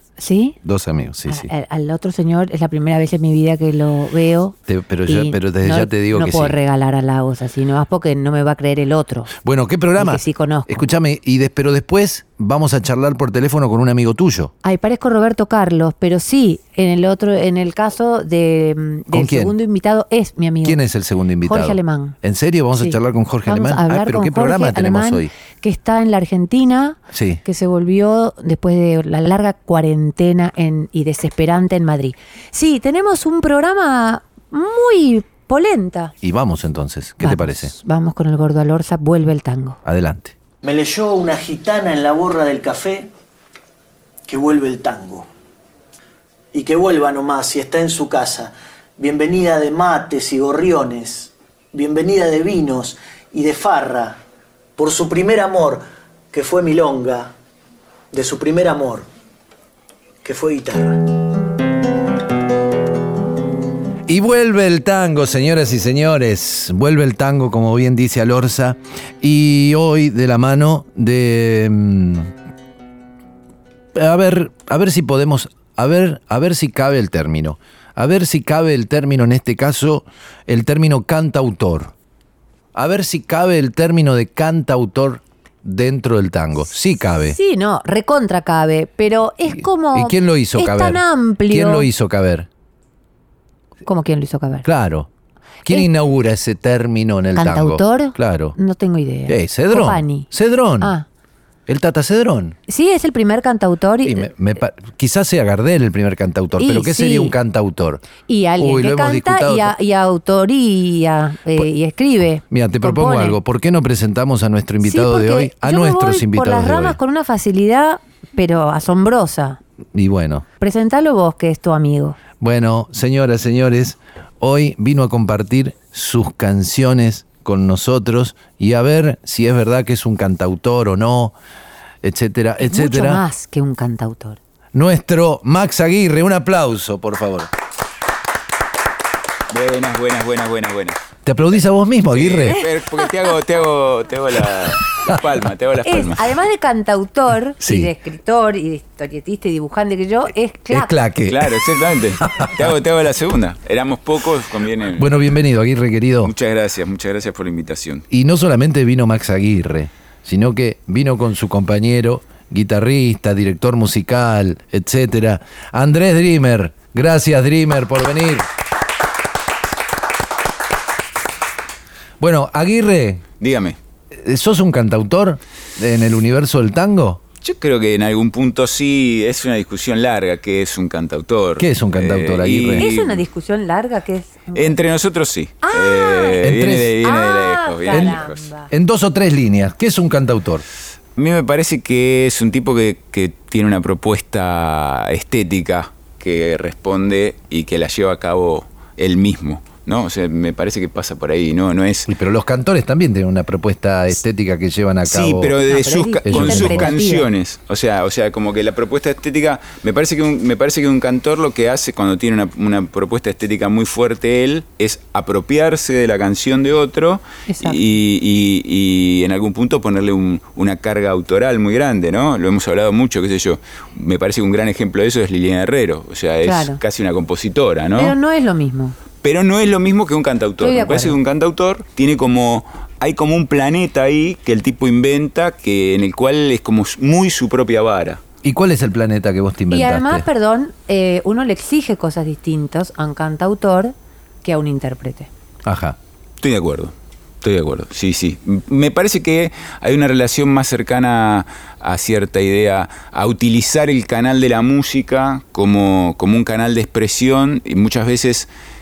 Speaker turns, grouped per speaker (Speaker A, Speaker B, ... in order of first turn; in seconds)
Speaker A: 0.2-0.6, 1.3-9.3, 10.0-10.8, 14.6-20.8, 21.4-22.2, 22.8-36.1, 37.2-39.8, 87.1-91.9, 93.8-94.7, 97.3-100.3, 100.8-101.1, 102.7-104.3, 106.6-107.3, 108.3-113.4, 114.8-119.6, 120.6-122.2, 132.6-134.4, 142.6-143.1, 145.8-150.9, 182.8-184.8, 185.6-186.5, 187.0-188.7, 205.7-207.3, 217.5-217.8, 226.4-226.8, 228.0-229.0, 230.6-231.2, 239.7-245.3
Speaker B: 0.6-1.5, 4.7-6.6, 9.4-14.5, 19.1-19.6, 20.6-25.3, 27.1-27.4, 36.2-37.7, 39.9-40.3, 64.1-72.3, 73.9-81.9, 82.7-87.4, 89.5-92.5, 94.7-95.1, 95.7-98.6, 99.3-101.0, 101.7-102.6, 104.0-108.0, 108.6-109.7, 112.5-117.0, 119.9-120.5, 122.4-131.4, 132.0-133.2, 134.7-137.5, 141.3-142.6, 147.6-147.9, 150.7-151.6, 152.3-152.7, 154.9-156.3, 158.1-168.5, 172.2-173.2, 174.1-177.2, 181.6-182.9, 186.4-186.9, 187.9-190.7, 202.1-205.6, 206.2-206.9, 238.4-240.3, 245.7-246.0
Speaker C: 40.6-43.1, 44.3-45.3, 46.5-54.2, 54.8-57.3, 58.1-59.1, 60.2-61.1
Speaker D: 139.5-141.0, 142.1-146.3, 151.3-155.2, 156.2-158.1, 173.4-173.8, 177.4-183.2, 184.6-188.4, 191.2-202.1, 205.1-228.2, 229.2-238.2, 246.4-258.5